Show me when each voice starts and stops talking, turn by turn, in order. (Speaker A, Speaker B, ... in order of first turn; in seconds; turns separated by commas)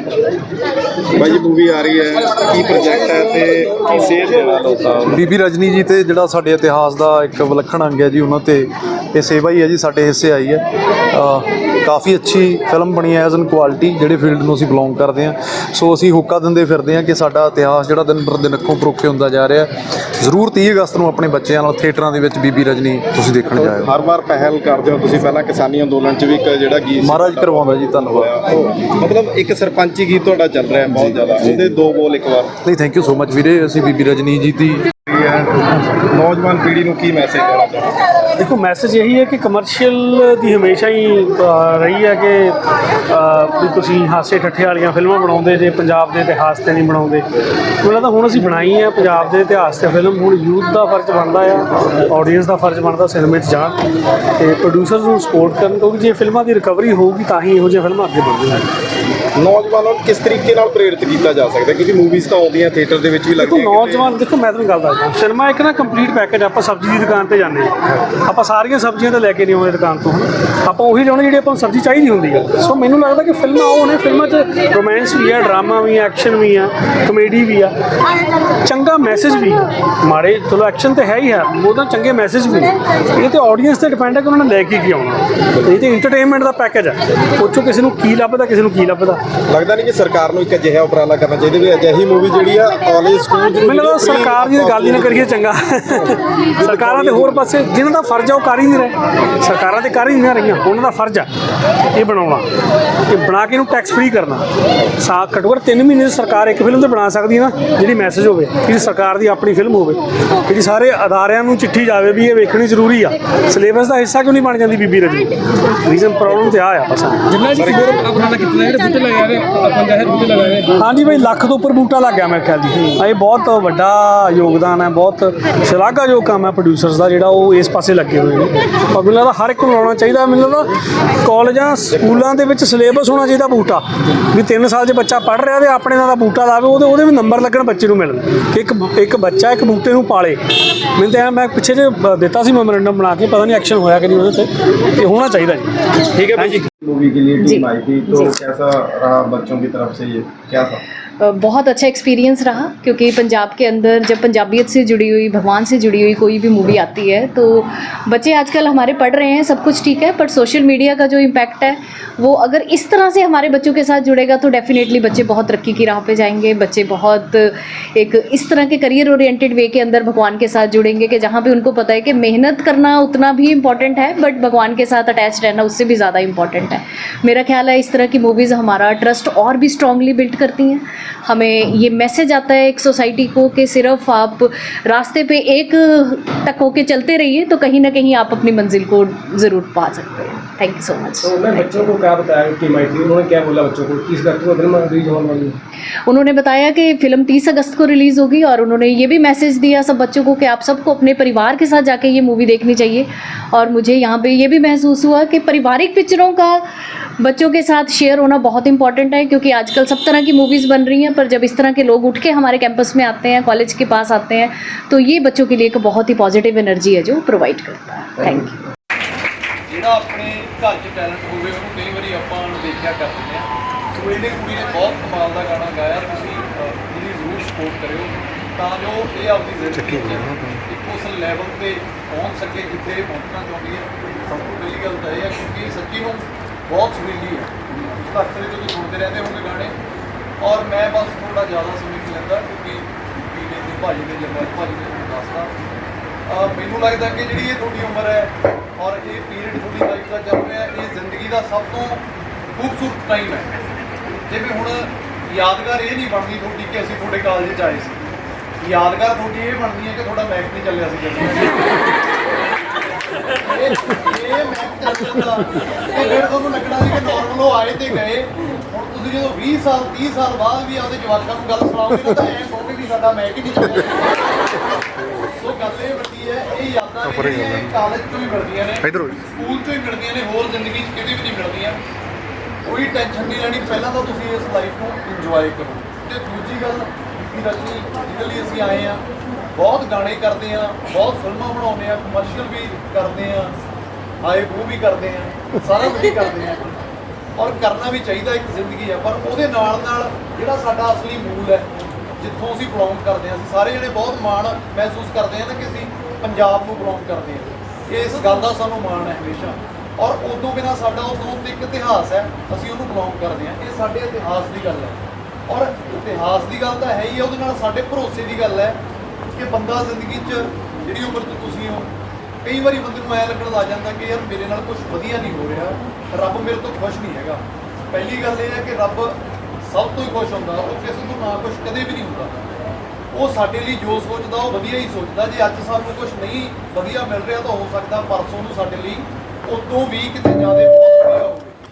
Speaker A: 1.1-5.2, Speaker B: 5.1-23.9, Speaker A: 23.5-32.5, Speaker B: 27.0-28.3, Speaker B: 30.9-31.6, Speaker B: 32.6-34.9, Speaker A: 35.1-38.0, Speaker C: 38.4-42.6, Speaker C: 43.1-47.2, Speaker C: 47.8-53.8, Speaker C: 54.4-58.7, Speaker A: 59.4-64.1, Speaker C: 63.4-77.7, Speaker C: 78.6-89.2, Speaker A: 89.5-95.3, Speaker C: 93.6-101.3, Speaker A: 96.6-97.5, Speaker C: 102.0-102.5, Speaker C: 103.1-104.5, Speaker C: 105.0-117.5, Speaker D: 117.3-120.7, Speaker A: 117.5-118.0, Speaker C: 120.8-130.7, Speaker C: 131.2-140.4, Speaker C: 141.0-145.8, Speaker A: 146.1-150.8, Speaker C: 146.3-146.7, Speaker E: 147.4-148.3, Speaker E: 151.2-191.8, Speaker D: 191.2-195.6, Speaker E: 196.1-206.7, Speaker E: 207.2-218.6, Speaker F: 219.7-239.8, Speaker F: 240.4-245.5, Speaker F: 246.3-252.0, Speaker F: 252.6-253.5, Speaker F: 254.3-258.0, Speaker F: 258.6-261.6, Speaker F: 263.4-274.4, Speaker F: 275.3-281.8, Speaker F: 282.6-289.0, Speaker F: 289.6-293.6, Speaker F: 294.2-296.8, Speaker F: 297.4-318.8, Speaker F: 319.4-321.9, Speaker F: 322.4-332.4, Speaker F: 333.1-341.6